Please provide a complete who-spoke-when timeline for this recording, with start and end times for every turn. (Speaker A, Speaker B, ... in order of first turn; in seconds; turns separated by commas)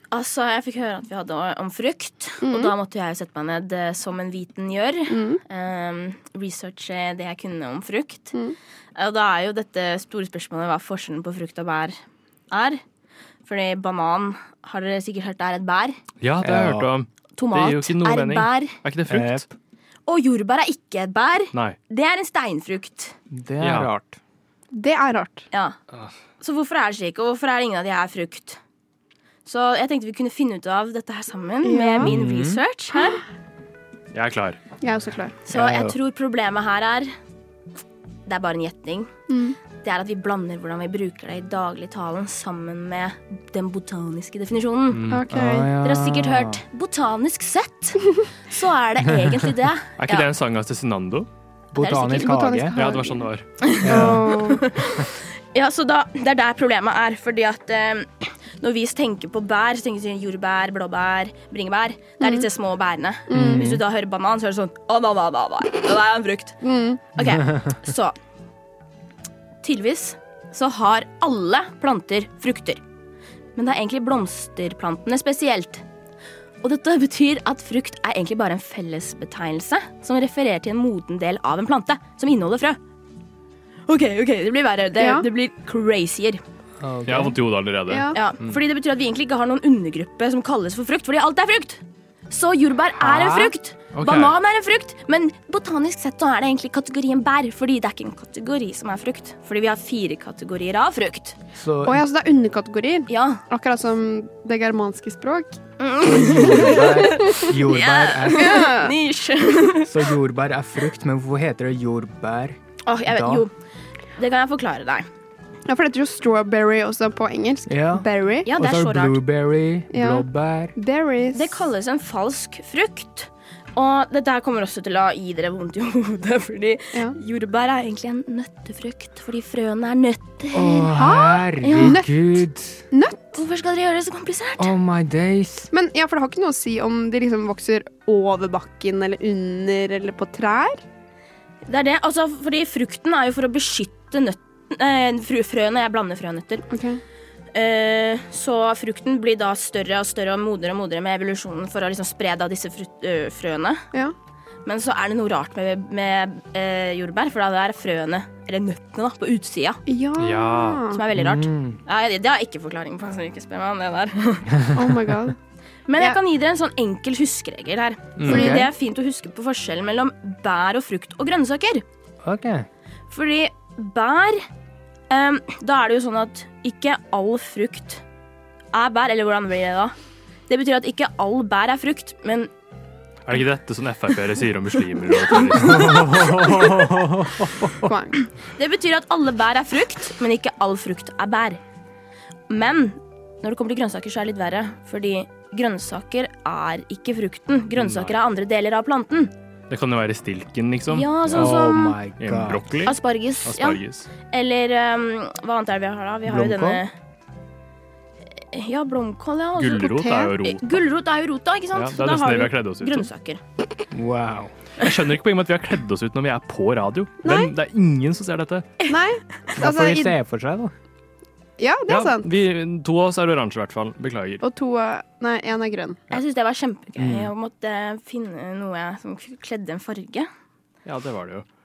Speaker A: 0.1-8.3, Speaker B: 2.4-2.7, Speaker B: 5.1-5.4, Speaker A: 8.9-12.0, Speaker A: 12.5-12.8, Speaker A: 13.4-16.0, Speaker C: 16.2-19.5, Speaker D: 16.4-16.9, Speaker A: 17.4-18.7, Speaker D: 19.1-19.4, Speaker A: 20.1-23.1, Speaker D: 23.3-24.2, Speaker C: 23.6-23.9, Speaker B: 24.7-25.5, Speaker A: 25.5-25.8, Speaker A: 26.4-28.6, Speaker A: 29.4-33.2, Speaker B: 31.6-32.1, Speaker D: 32.0-32.6, Speaker C: 34.1-34.6, Speaker B: 34.8-35.4, Speaker A: 35.5-37.1, Speaker D: 35.5-36.0, Speaker A: 38.2-39.1, Speaker B: 39.3-39.6, Speaker A: 39.8-45.0, Speaker C: 44.9-45.2, Speaker B: 45.1-45.7, Speaker D: 45.3-46.6, Speaker A: 45.8-50.3, Speaker C: 50.0-51.3, Speaker D: 51.7-52.8, Speaker A: 51.8-52.3, Speaker B: 52.0-53.3, Speaker C: 52.7-53.5, Speaker A: 53.6-66.6, Speaker D: 53.8-54.4, Speaker B: 53.8-54.7, Speaker B: 62.2-62.5, Speaker B: 63.3-63.8, Speaker D: 63.3-63.8, Speaker B: 66.6-67.0, Speaker A: 67.1-68.1, Speaker A: 69.6-72.8, Speaker A: 73.5-75.8, Speaker A: 76.6-82.8, Speaker A: 83.9-86.4, Speaker B: 85.0-85.3, Speaker D: 86.8-87.4, Speaker C: 87.0-88.5, Speaker B: 87.9-88.2, Speaker A: 88.1-101.4, Speaker D: 93.0-93.5, Speaker C: 93.9-94.3, Speaker D: 101.5-102.0, Speaker B: 101.8-105.6, Speaker A: 103.1-103.4, Speaker A: 105.8-110.0, Speaker D: 106.0-108.7, Speaker B: 108.3-109.0, Speaker D: 109.8-113.5, Speaker A: 112.8-113.5, Speaker A: 114.2-115.1, Speaker B: 115.7-118.5, Speaker D: 117.7-120.8, Speaker A: 118.4-119.2, Speaker B: 119.9-121.6, Speaker A: 121.3-130.9, Speaker D: 130.5-132.8, Speaker B: 130.9-132.3, Speaker A: 131.6-132.0, Speaker B: 132.9-133.4, Speaker A: 133.3-134.7, Speaker D: 134.6-135.7, Speaker B: 135.7-140.8, Speaker A: 141.7-146.7, Speaker B: 146.7-147.0, Speaker A: 147.5-153.8, Speaker A: 154.6-159.8, Speaker B: 159.9-161.0, Speaker C: 160.2-160.8, Speaker A: 160.9-164.6, Speaker D: 161.1-161.8, Speaker B: 164.7-165.3, Speaker A: 165.9-171.8, Speaker D: 168.2-168.7, Speaker B: 168.2-168.7, Speaker D: 172.2-172.7, Speaker A: 173.1-174.4, Speaker A: 175.1-178.0, Speaker A: 178.7-179.9, Speaker A: 180.5-182.5, Speaker C: 183.2-186.3, Speaker A: 185.4-186.8, Speaker D: 185.7-187.7, Speaker B: 187.8-188.2, Speaker A: 188.6-191.6, Speaker A: 192.5-199.3, Speaker C: 197.8-198.2, Speaker C: 199.7-204.1, Speaker A: 200.9-202.0, Speaker D: 201.3-202.7, Speaker A: 202.8-206.9, Speaker D: 206.2-206.8, Speaker A: 208.4-213.4, Speaker C: 209.6-210.7, Speaker B: 209.9-210.3, Speaker C: 211.7-213.1, Speaker D: 213.9-214.5, Speaker C: 214.8-218.7, Speaker B: 217.2-217.5, Speaker B: 218.9-220.1, Speaker D: 219.6-220.7, Speaker B: 221.6-222.3, Speaker C: 221.9-224.4, Speaker B: 224.4-226.0, Speaker A: 226.1-230.3, Speaker D: 227.0-227.3, Speaker C: 230.8-231.4